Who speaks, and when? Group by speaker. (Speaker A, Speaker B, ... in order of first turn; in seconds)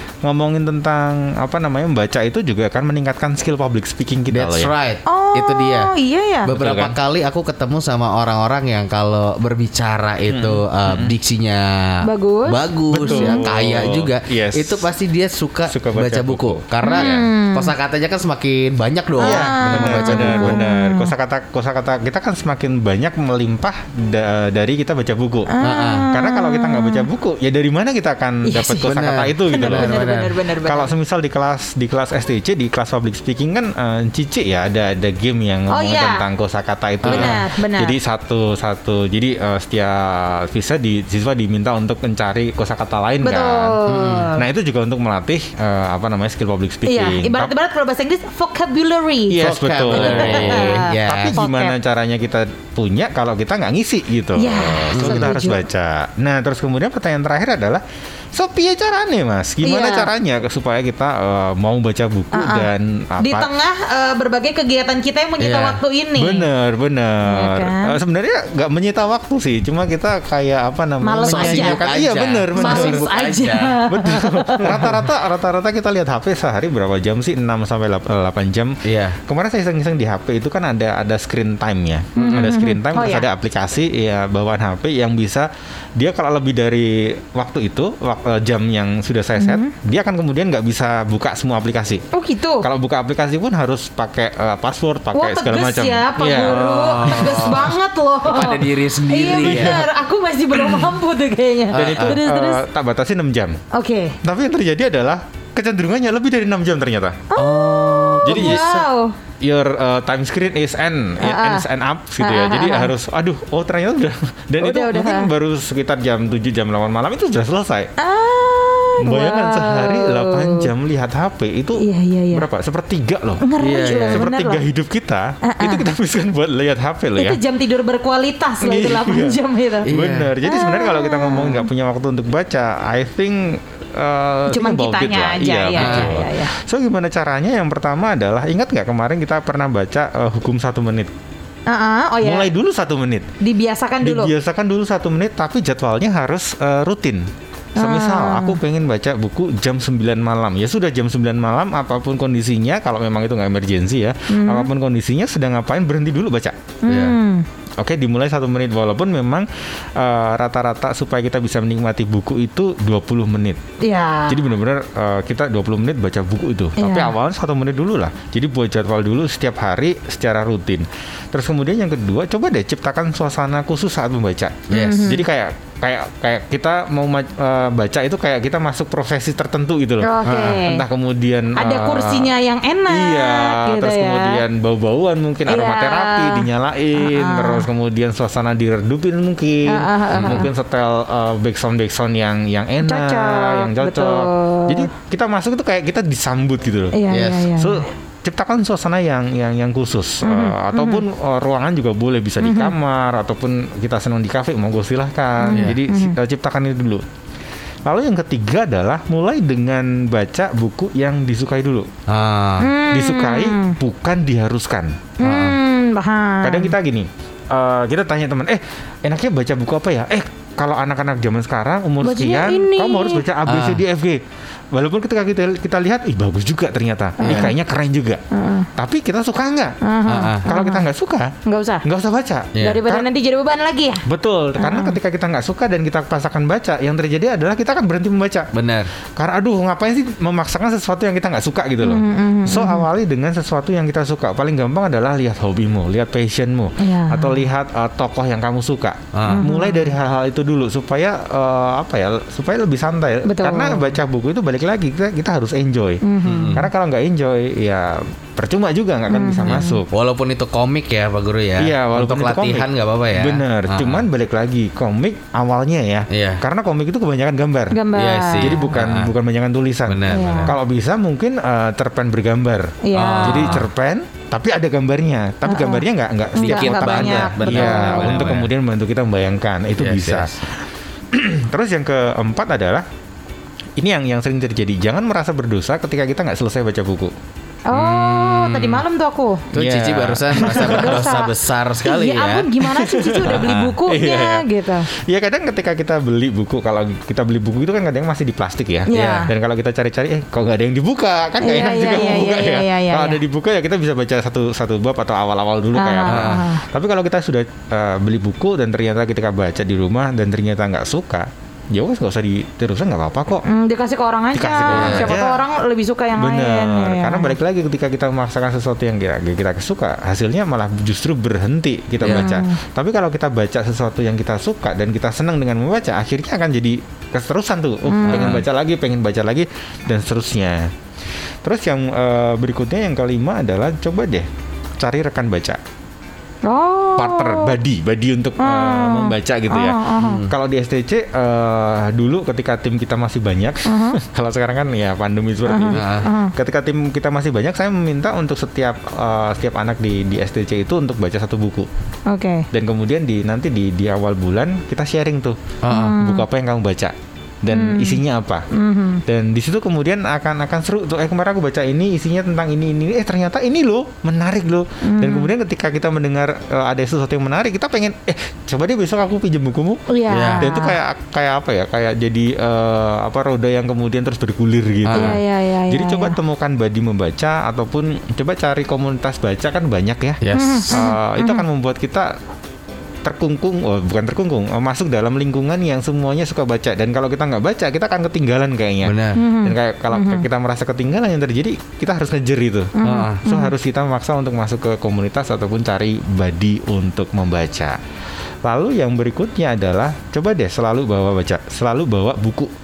Speaker A: 0.2-4.7, 6.5-6.9, 10.3-11.1, 12.9-14.8, 15.7-17.2, 19.2-25.5, 26.1-30.1, 30.6-43.8, 44.4-47.5, 49.3-57.8, 58.3-63.5, 66.2-73.0, 73.9-92.0, 92.6-97.7, 99.4-99.9, 100.6-100.9, 101.7-103.6, 104.2-107.2, 108.2-108.6, 109.4-117.9, 119.0-127.4, 128.6-141.1, 142.2-143.2, 144.0-156.6, 157.8-163.6, 164.3-182.3, 182.9-197.0, 197.6-207.0, 207.8-211.9, 212.9-215.0, 216.4-224.2, 224.7-228.2, 228.8-229.8, 230.4-233.0, 234.1-238.5, 239.2-256.0, 256.5-259.9, 261.6-267.8, 268.4-280.3, 281.1-282.9, 283.8-287.1, 289.5-291.1, 292.7-313.4, 314.3-315.4, 316.1-330.7, 331.4-334.3, 334.8-335.6, 337.0-351.7, 352.5-355.4, 356.0-358.4, 359.1-369.9, 370.4-382.1, 383.0-392.7, 393.2-397.8, 398.4-402.5
Speaker B: 4.3-5.9, 6.4-20.6, 25.6-26.1, 28.8-30.3, 37.0-37.4, 43.9-44.3, 49.4-51.4, 54.9-55.4, 65.4-65.8, 71.2-73.8, 74.6-75.0, 78.8-79.2, 96.5-97.7, 98.3-99.8, 101.7-102.2, 107.4-108.8, 123.6-124.2, 129.9-130.3, 135.8-136.2, 156.9-157.1, 174.7-175.1, 180.3-180.6, 190.1-190.5, 197.1-197.5, 212.1-212.7, 215.2-215.6, 223.4-223.8, 227.2-227.5, 230.1-230.5, 232.5-232.8, 238.5-238.9, 249.1-249.4, 256.2-256.7, 259.5-264.1, 266.1-266.4, 267.9-269.1, 269.9-270.5, 272.9-273.7, 276.4-278.5, 279.8-280.4, 287.7-288.8, 289.5-292.5, 293.2-293.8, 298.9-299.3, 306.1-306.4, 314.6-315.1, 322.0-322.3, 328.1-328.4, 340.0-340.3, 345.7-346.1, 355.6-355.9, 370.1-370.5, 374.8-375.1, 380.2-380.6, 388.8-389.2, 392.8-393.2
Speaker C: 5.0-6.5, 12.0-13.5, 16.8-17.7, 19.2-21.1, 25.5-27.1, 28.4-28.9, 29.5-30.9, 35.7-36.2, 37.0-38.0, 43.2-44.4, 46.8-51.7, 54.4-55.6, 59.6-60.1, 62.3-62.7, 63.2-66.5, 67.2-68.0, 71.0-71.8, 72.5-74.9, 82.2-83.3, 89.4-89.7, 92.1-92.7, 95.1-102.6, 103.7-104.2, 107.3-109.1, 111.2-111.6, 112.2-112.9, 114.6-115.3, 118.0-120.7, 121.8-122.4, 123.4-124.6, 125.4-125.9, 127.2-129.9, 130.4-131.7, 134.5-136.5, 141.7-142.5, 143.4-144.3, 147.8-148.6, 154.3-154.7, 156.8-157.4, 163.8-164.4, 166.8-167.1, 174.7-175.2, 180.0-180.8, 181.6-184.4, 185.5-187.7, 189.7-190.5, 192.8-194.9, 196.9-197.9, 200.2-201.0, 202.4-202.7, 205.4-206.2, 212.6-213.8, 215.2-216.7, 222.0-223.2, 227.2-227.5, 228.3-228.7, 229.8-230.8, 231.4-231.8, 232.6-234.0, 234.6-235.0, 241.8-242.9, 246.8-247.4, 249.3-249.9, 253.2-253.8, 256.0-256.6, 259.1-259.8, 267.7-268.7, 270.1-270.5, 272.8-273.6, 275.4-275.8, 276.4-278.4, 287.7-289.5, 290.4-294.9, 298.9-299.3, 301.4-303.2, 305.7-306.6, 313.4-317.3, 322.1-322.6, 327.9-328.4, 336.4-337.5, 338.4-340.2, 343.6-344.0, 345.5-346.3, 352.1-352.4, 355.7-356.2, 357.5-359.0, 364.8-365.3, 369.9-370.8, 374.9-376.1, 380.3-381.4, 389.1-390.2, 392.7-393.5